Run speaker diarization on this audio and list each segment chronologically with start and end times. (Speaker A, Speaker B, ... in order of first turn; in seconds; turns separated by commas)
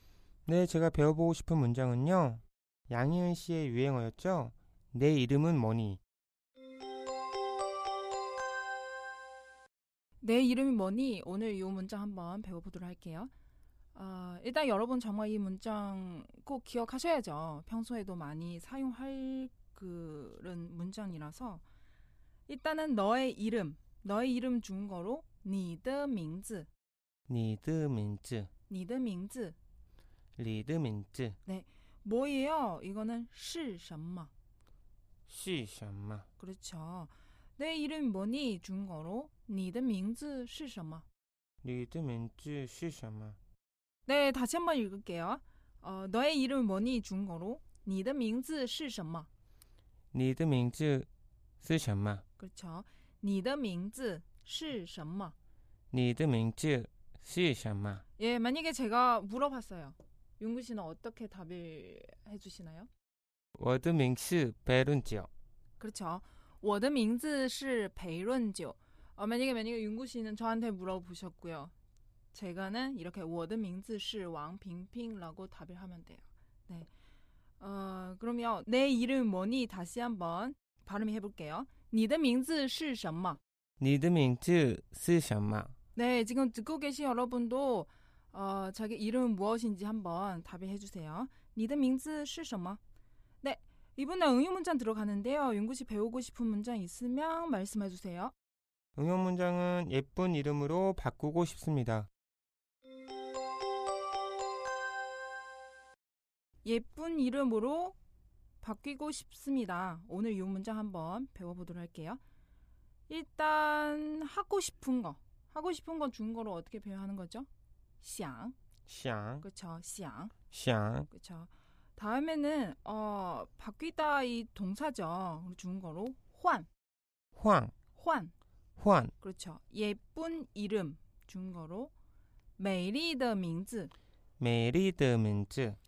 Speaker A: 0.5-6.0, Speaker B: 10.2-13.3, Speaker B: 13.9-21.6, Speaker B: 22.5-26.7, Speaker A: 27.3-28.5, Speaker B: 28.7-29.6, Speaker A: 30.4-31.4, Speaker B: 31.4-34.3, Speaker A: 35.3-36.3, Speaker B: 36.4-41.0, Speaker A: 41.6-43.4, Speaker B: 44.0-49.3, Speaker A: 50.1-51.1, Speaker A: 51.6-52.2, Speaker B: 52.4-55.3, Speaker A: 55.9-58.0, Speaker B: 58.2-62.9, Speaker A: 63.5-65.3, Speaker B: 65.8-71.7, Speaker B: 72.3-76.9, Speaker B: 77.6-83.4, Speaker A: 83.8-85.7, Speaker B: 85.9-92.8, Speaker B: 93.4-98.3, Speaker A: 99.0-102.1, Speaker B: 106.6-108.0, Speaker B: 108.6-112.2, Speaker B: 113.1-117.5, Speaker B: 118.0-118.5, Speaker A: 118.9-119.4, Speaker B: 119.4-120.3, Speaker A: 120.5-121.1, Speaker B: 121.1-126.7, Speaker A: 127.3-127.7, Speaker B: 127.9-128.3, Speaker A: 128.8-129.1, Speaker B: 129.2-131.9, Speaker B: 132.6-133.9, Speaker A: 134.4-135.8